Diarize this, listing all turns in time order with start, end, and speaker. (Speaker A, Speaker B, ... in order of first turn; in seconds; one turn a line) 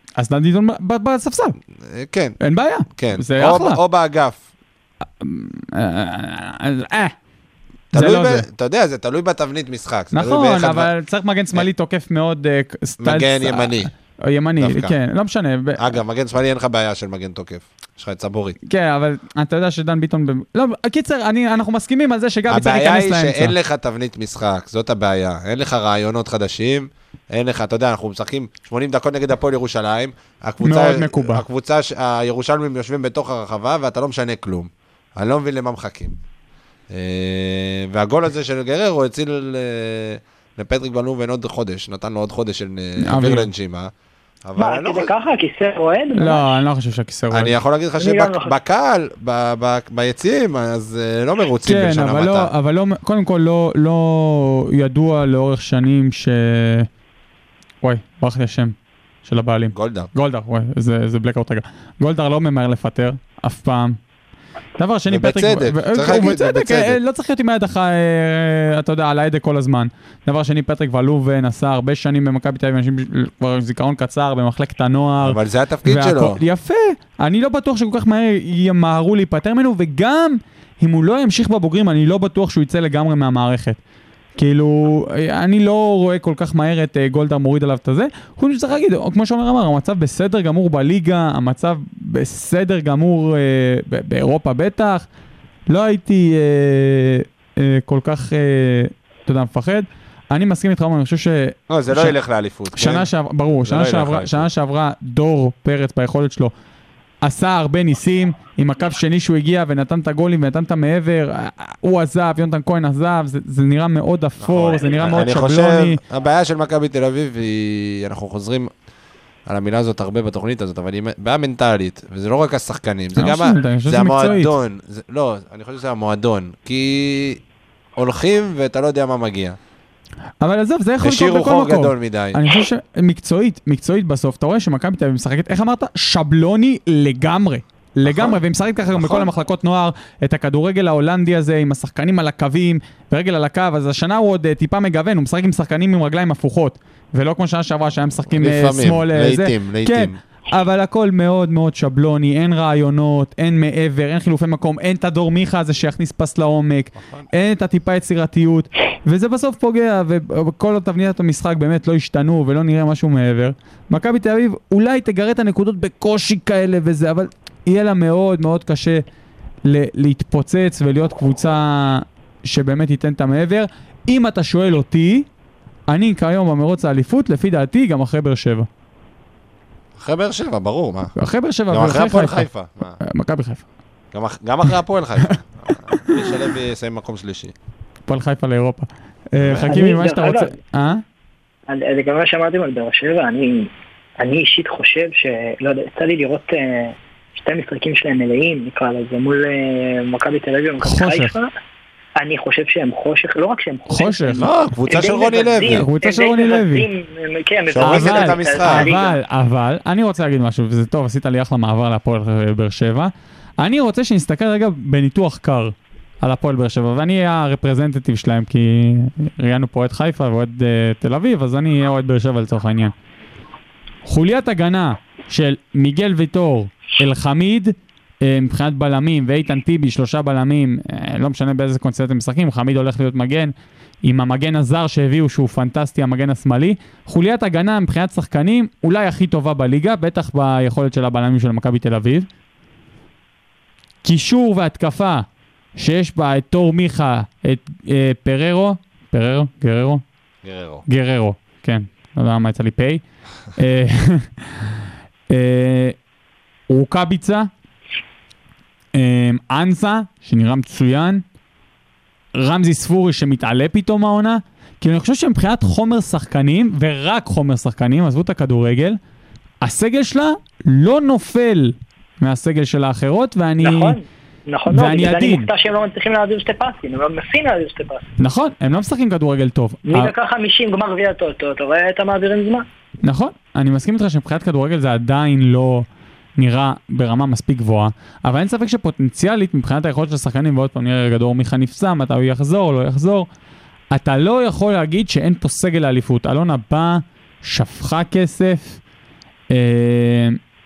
Speaker A: 0.2-1.6
Speaker B: 1.8-2.4
Speaker A: 2.4-3.8
Speaker B: 2.9-4.4
Speaker A: 5.2-7.2
Speaker A: 7.9-8.5
Speaker B: 7.9-10.9
Speaker A: 10.1-15.9
Speaker B: 13.0-13.9
Speaker B: 14.6-14.9
Speaker B: 15.8-18.6
Speaker A: 18.7-23.5
Speaker B: 22.5-36.2
Speaker A: 30.6-31.4
Speaker B: 36.9-43.9
Speaker A: 43.0-43.5
Speaker B: 44.4-45.1
Speaker C: 44.6-46.6
Speaker A: 46.2-47.5
Speaker B: 47.3-52.5
Speaker C: 48.0-48.5
Speaker A: 51.6-56.9
Speaker A: 57.8-64.0
Speaker B: 59.7-60.1
Speaker A: 64.8-83.8
Speaker B: 65.1-67.0
Speaker B: 75.2-76.4
Speaker A: 84.4-95.1
Speaker A: 95.7-102.2
Speaker B: 101.7-103.1
Speaker A: 102.8-106.5
Speaker B: 103.6-104.5
Speaker A: 107.2-116.0
Speaker B: 114.4-118.7
Speaker B: 119.5-127.4
Speaker A: 123.2-124.5
Speaker B: 128.0-129.6
Speaker A: 130.4-169.1
Speaker B: 131.0-132.4
Speaker B: 138.1-138.4
Speaker B: 138.9-139.3
Speaker B: 148.3-150.2
Speaker B: 157.0-157.3
Speaker A: 169.7-175.3
Speaker A: 175.9-178.7
Speaker B: 180.0-181.1
Speaker A: 181.2-182.5
Speaker B: 181.7-183.0
Speaker A: 183.0-183.6
Speaker B: 184.1-187.5
Speaker A: 185.9-186.3
Speaker A: 188.1-191.0
Speaker B: 189.4-189.8
Speaker C: 189.7-190.6
Speaker C: 191.7-201.5
Speaker A: 200.8-201.3
Speaker C: 202.2-209.2
Speaker A: 203.9-204.5
Speaker B: 204.4-205.9
Speaker A: 205.7-206.9
Speaker B: 207.7-208.9
Speaker A: 207.8-222.9
Speaker A: 224.1-242.3
Speaker A: 244.0-245.2
Speaker A: 245.8-250.0
Speaker B: 250.4-250.8
Speaker A: 250.9-253.0
Speaker A: 253.6-254.7
Speaker A: 255.3-256.0
Speaker A: 256.7-257.5
Speaker A: 258.9-261.2
Speaker A: 262.4-269.0
Speaker A: 269.6-274.0
Speaker C: 273.6-278.1
Speaker A: 274.7-275.5
Speaker A: 278.2-280.1
Speaker C: 279.9-282.6
Speaker A: 283.0-293.3
Speaker A: 293.9-298.8
Speaker A: 299.5-300.4